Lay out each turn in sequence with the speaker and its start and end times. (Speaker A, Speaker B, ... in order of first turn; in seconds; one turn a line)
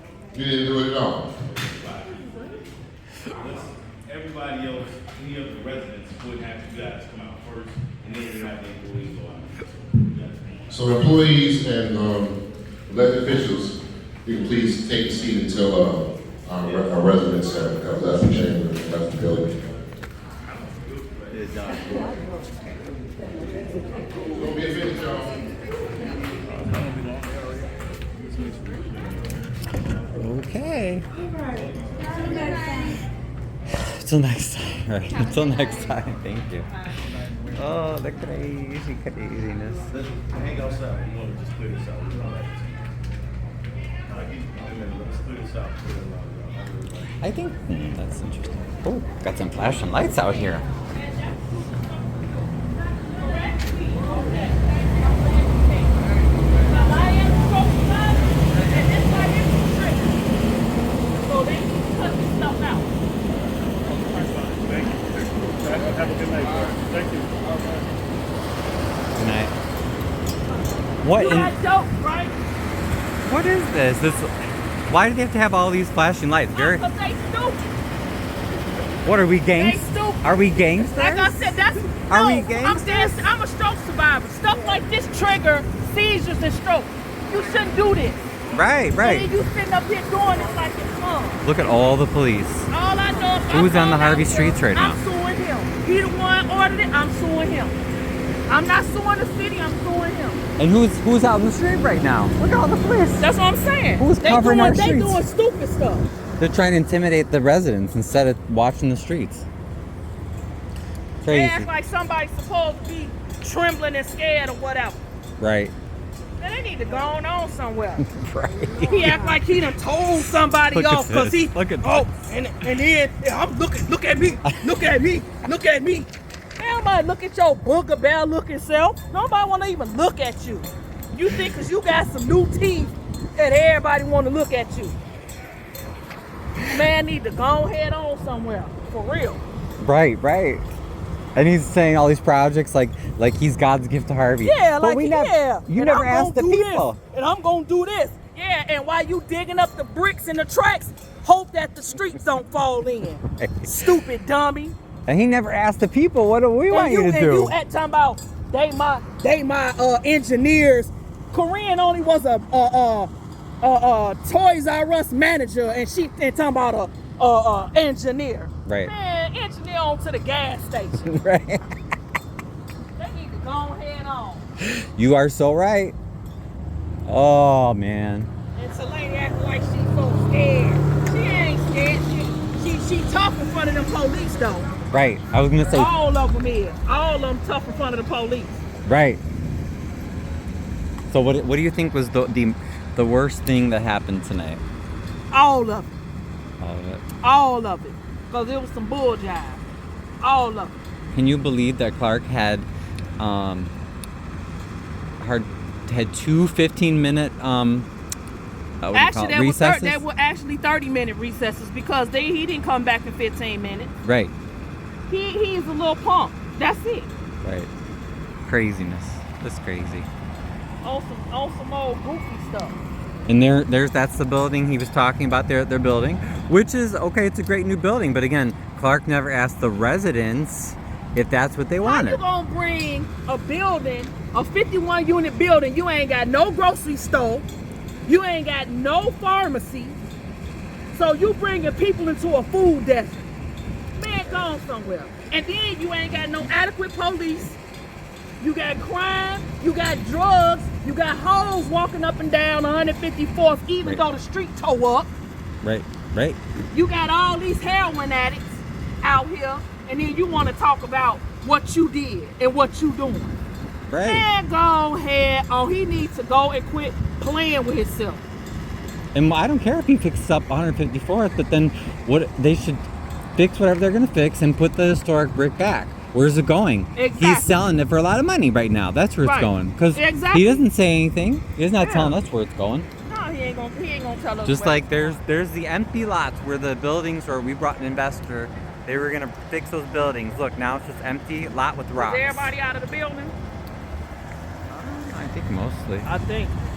Speaker A: 0.3-1.3
Speaker B: 1.4-2.6
Speaker B: 3.3-10.6
Speaker A: 10.7-19.5
Speaker B: 21.0-22.2
Speaker A: 24.3-25.5
Speaker B: 26.4-27.4
Speaker B: 28.2-29.3
Speaker C: 30.2-31.1
Speaker B: 31.5-32.7
Speaker C: 33.7-36.7
Speaker C: 37.5-39.9
Speaker B: 39.9-42.9
Speaker B: 44.1-47.1
Speaker C: 47.2-50.6
Speaker D: 51.0-52.2
Speaker D: 53.1-56.0
Speaker D: 56.6-60.2
Speaker D: 61.2-62.9
Speaker B: 64.2-67.3
Speaker C: 69.2-69.5
Speaker C: 71.0-71.5
Speaker D: 71.2-72.4
Speaker C: 73.2-74.3
Speaker C: 74.9-76.8
Speaker D: 76.5-77.6
Speaker C: 79.0-81.5
Speaker D: 79.6-88.2
Speaker C: 82.1-83.2
Speaker C: 88.5-89.3
Speaker D: 89.0-91.4
Speaker C: 91.4-92.7
Speaker D: 92.7-97.8
Speaker C: 93.5-95.0
Speaker D: 98.5-100.4
Speaker C: 100.6-103.3
Speaker D: 103.2-106.1
Speaker C: 104.0-105.2
Speaker C: 106.4-109.5
Speaker C: 111.2-111.7
Speaker D: 111.3-115.0
Speaker C: 115.4-115.7
Speaker D: 116.4-118.0
Speaker C: 118.0-119.2
Speaker D: 118.9-135.0
Speaker C: 120.7-122.1
Speaker D: 136.7-139.4
Speaker C: 139.8-140.7
Speaker C: 141.4-147.0
Speaker D: 144.4-154.8
Speaker C: 153.3-153.7
Speaker C: 155.1-157.6
Speaker D: 156.7-163.1
Speaker D: 163.6-171.2
Speaker C: 168.7-168.9
Speaker C: 171.0-171.6
Speaker D: 173.0-174.5
Speaker C: 174.6-175.9
Speaker C: 177.1-178.3
Speaker D: 178.6-184.7
Speaker C: 184.9-185.9
Speaker D: 185.7-188.6
Speaker C: 188.9-189.2
Speaker C: 191.1-194.6
Speaker D: 195.3-195.9
Speaker C: 196.6-197.0
Speaker D: 197.2-199.6
Speaker D: 200.2-200.8
Speaker C: 201.1-202.7
Speaker C: 203.2-203.7
Speaker C: 205.2-207.9
Speaker C: 208.8-210.0
Speaker D: 208.9-213.9
Speaker C: 214.0-214.3
Speaker D: 215.1-217.1
Speaker C: 217.4-217.7
Speaker C: 218.5-220.1
Speaker D: 220.8-222.8
Speaker C: 223.3-232.2
Speaker D: 231.8-237.5
Speaker D: 238.1-240.0
Speaker D: 240.9-243.2
Speaker D: 244.0-247.6
Speaker D: 248.4-255.1
Speaker C: 255.6-256.4
Speaker D: 256.7-263.4
Speaker C: 263.9-264.2
Speaker D: 264.0-268.2
Speaker C: 269.1-272.9
Speaker C: 273.4-282.9
Speaker D: 277.0-277.5
Speaker D: 279.2-280.6
Speaker D: 281.8-282.1
Speaker D: 283.1-285.2
Speaker C: 284.4-292.5
Speaker D: 291.9-293.4
Speaker C: 294.7-296.1
Speaker D: 296.1-296.6